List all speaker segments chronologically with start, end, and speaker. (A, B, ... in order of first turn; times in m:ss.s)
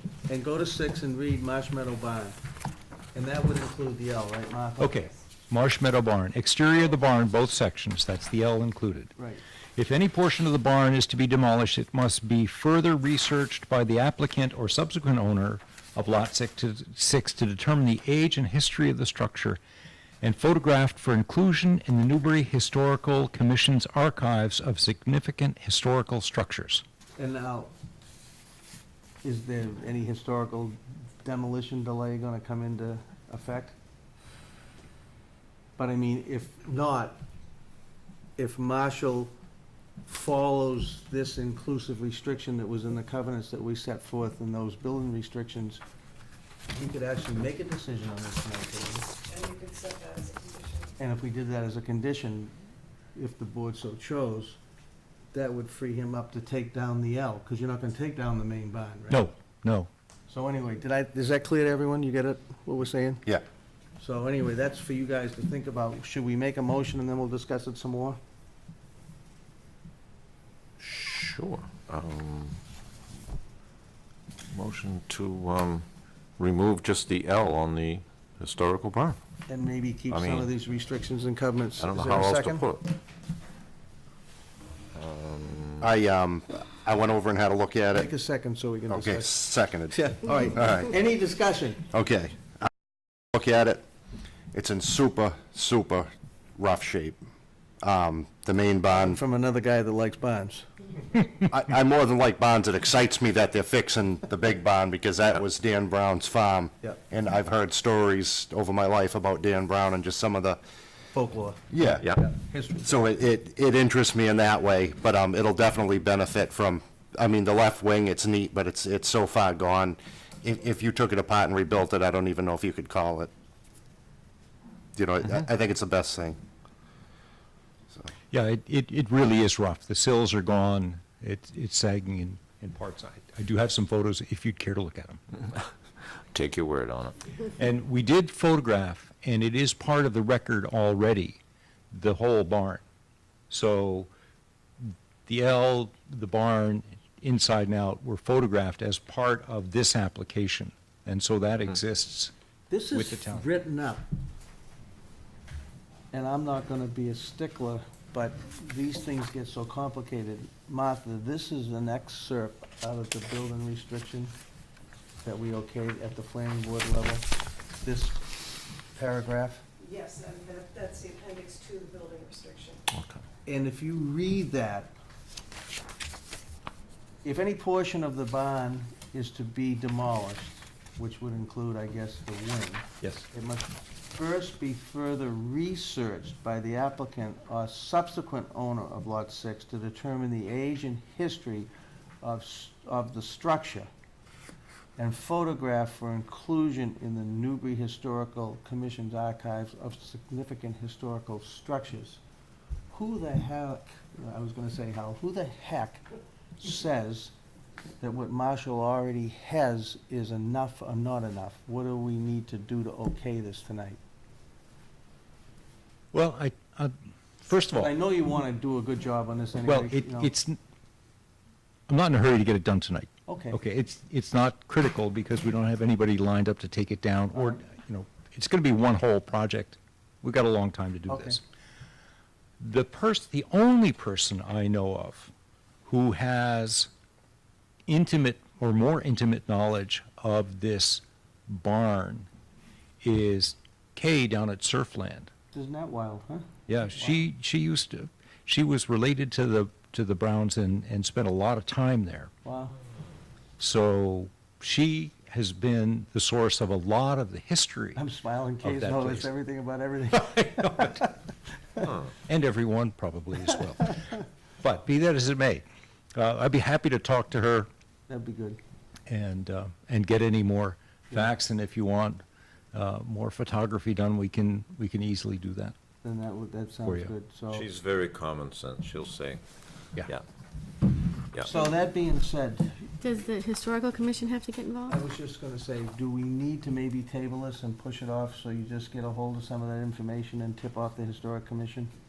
0:00.3-0:02.4 A
0:03.1-0:05.1 A
0:04.8-0:09.2 B
0:09.2-0:09.4 A
0:09.8-0:19.6 B
0:20.2-0:26.8 B
0:27.2-0:27.7 A
0:29.2-0:33.7 A
0:35.8-0:37.2 A
0:38.4-0:39.3 A
0:40.0-0:45.8 A
0:46.7-0:49.1 A
0:49.2-0:50.9 C
0:51.0-0:52.5 A
0:53.1-0:54.6 A
0:55.3-0:59.2 A
0:59.1-0:59.9 B
1:00.3-1:03.2 A
1:04.0-1:08.2 A
1:10.8-1:12.6 D
1:14.5-1:15.8 D
1:16.4-1:19.2 D
1:19.5-1:22.7 A
1:20.1-1:20.5 D
1:21.8-1:23.0 D
1:24.9-1:25.9 D
1:25.8-1:28.1 E
1:27.9-1:31.8 A
1:28.9-1:30.9 E
1:31.9-1:32.7 E
1:33.3-1:33.8 E
1:34.5-1:37.2 E
1:37.8-1:39.2 E
1:38.9-1:40.7 A
1:41.5-1:50.6 E
1:51.1-1:51.6 A
1:51.7-1:52.1 E
1:52.2-1:52.9 A
1:52.8-2:03.3 E
2:05.0-2:06.4 E
2:08.3-2:15.2 B
2:16.3-2:17.2 D
2:17.6-2:21.4 B
2:21.9-2:22.8 B
2:23.5-2:24.1 B
2:24.8-2:32.3 B
2:32.7-2:34.0 A
2:32.9-2:33.5 B
2:36.1-2:44.3 A
2:45.2-2:47.2 A
2:47.8-2:48.2 A
2:48.9-2:49.6 A
2:49.8-2:52.8 C
2:52.9-2:53.2 D
2:53.4-2:54.9 A
2:57.2-3:11.7 A
3:12.2-3:13.9 A
3:15.0-3:22.2 A
3:22.9-3:26.0 A
3:26.6-3:27.3 A
3:28.0-3:34.0 A
3:36.1-3:37.9 B
3:37.8-3:40.3 A
3:39.6-3:40.6 B
3:41.9-3:51.4 B
3:43.3-3:43.6 A
3:47.3-3:47.6 A
3:51.1-3:51.4 A
3:52.6-3:55.3 B
3:55.8-3:56.9 B
3:57.9-4:02.3 B
4:03.0-4:05.3 B
4:05.5-4:07.2 A
4:06.7-4:12.3 B
4:12.4-4:12.7 A
4:13.6-4:18.0 B
4:17.9-4:21.2 A
4:18.6-4:19.3 B
4:20.1-4:21.1 B
4:22.2-4:27.7 B
4:28.1-4:28.6 A
4:29.1-4:32.2 B
4:32.7-4:35.8 B
4:36.0-4:37.7 A
4:36.8-4:37.1 B
4:37.5-4:39.4 D
4:41.4-4:42.9 A
4:43.0-4:45.0 F
4:44.9-4:51.9 A